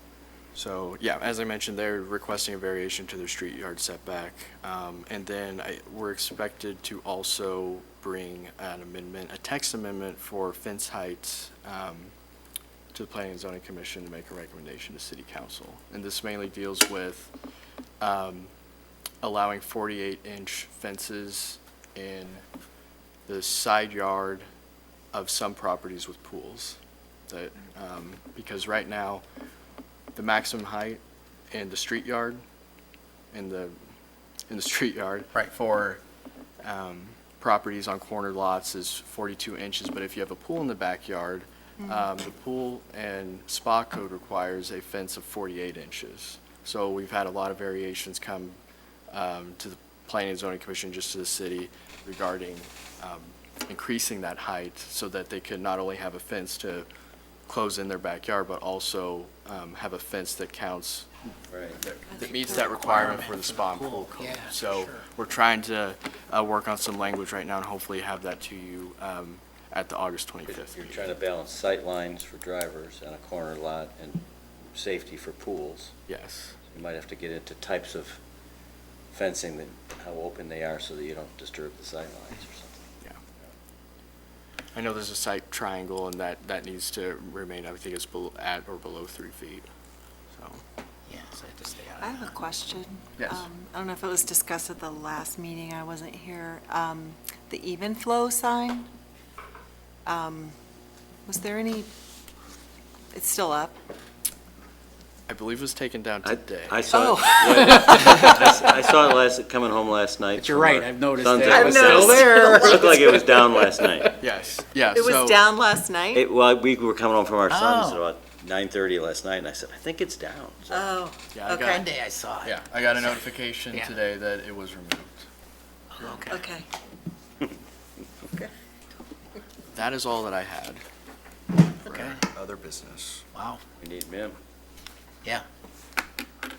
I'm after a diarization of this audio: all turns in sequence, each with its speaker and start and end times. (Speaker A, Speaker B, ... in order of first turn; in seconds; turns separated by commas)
Speaker A: 0.5-12.1, Speaker A: 12.9-17.3, Speaker A: 18.0-18.5, Speaker A: 19.2-22.4, Speaker A: 23.3-24.5, Speaker A: 25.1-29.2, Speaker A: 30.1-31.0, Speaker A: 31.5-32.4, Speaker A: 33.3-33.8, Speaker A: 34.5-36.0, Speaker A: 36.6-48.6, Speaker B: 41.8-42.1, Speaker A: 49.1-56.9, Speaker A: 57.5-61.1, Speaker C: 61.5-61.8, Speaker A: 61.8-71.1, Speaker B: 62.1-62.8, Speaker D: 62.5-65.0, Speaker C: 70.5-76.0, Speaker A: 76.1-76.6, Speaker C: 76.7-78.2, Speaker C: 79.1-82.8, Speaker A: 84.7-89.7, Speaker A: 90.3-90.6, Speaker D: 91.1-92.4, Speaker B: 92.0-98.9, Speaker A: 93.2-93.5, Speaker B: 100.0-100.6, Speaker B: 101.3-101.9, Speaker B: 103.1-103.8, Speaker A: 105.3-106.8, Speaker C: 106.2-114.2, Speaker B: 106.9-108.2, Speaker D: 110.4-113.2, Speaker B: 111.4-113.3, Speaker A: 114.2-115.4, Speaker B: 114.9-116.2, Speaker C: 116.1-120.9, Speaker D: 117.5-118.0, Speaker B: 120.7-121.8, Speaker A: 121.3-121.8, Speaker D: 121.6-123.2, Speaker A: 122.4-125.2, Speaker D: 125.9-126.5, Speaker B: 126.3-126.7, Speaker A: 129.7-130.8, Speaker A: 131.8-133.2, Speaker D: 131.9-132.2, Speaker D: 133.3-133.6, Speaker C: 133.8-134.3